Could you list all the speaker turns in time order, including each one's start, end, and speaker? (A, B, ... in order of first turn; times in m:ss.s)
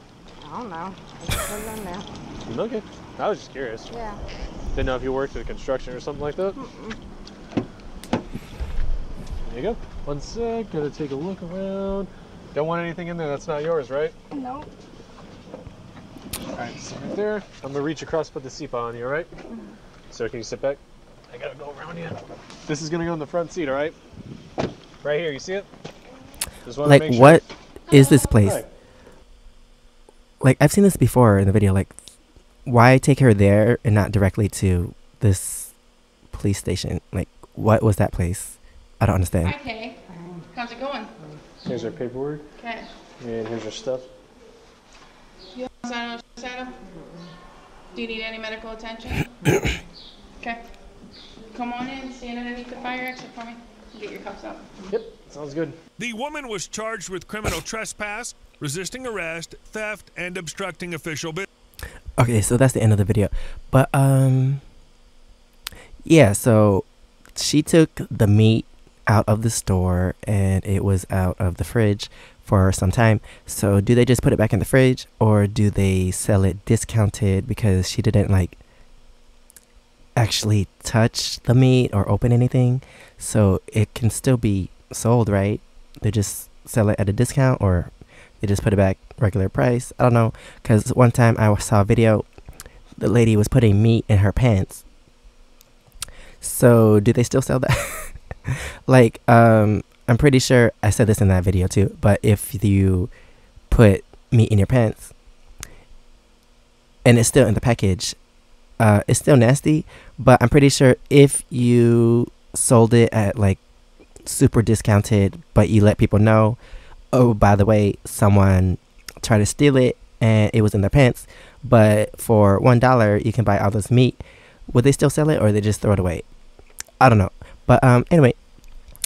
0:00.4-0:02.1 A
0:02.5-0:03.9 B
0:03.9-0:04.2 A
0:04.7-0:06.5 B
0:06.5-0:07.0 A
0:09.4-0:14.1 B
0:14.3-0:14.7 A
0:16.6-0:19.3 B
0:20.1-0:20.8 B
0:21.3-0:24.0 B
0:25.0-0:25.7 B
0:26.6-0:27.4 B
0:26.8-0:28.6 C
0:28.4-0:28.7 B
0:30.4-0:32.0 C
0:32.6-0:35.7 C
0:36.3-0:39.6 C
0:39.4-0:40.0 D
0:40.5-0:41.1 D
0:41.6-0:42.4 B
0:42.6-0:42.8 D
0:43.2-0:44.1 B
0:45.6-0:46.7 D
0:46.9-0:47.3 A
0:47.9-0:49.2 D
0:51.5-0:54.6 D
0:54.9-0:55.8 B
0:56.0-1:01.4 E
1:02.2-1:04.6 C
1:06.0-1:18.6 C
1:20.2-1:27.9 C
1:28.4-1:32.3 C
1:33.0-1:34.8 C
1:36.4-1:43.1 C
1:43.7-1:45.1 C
1:47.0-1:48.2 C
1:48.8-1:53.6 C
1:54.2-1:56.6 C
1:57.1-2:06.2 C
2:07.0-2:08.4 C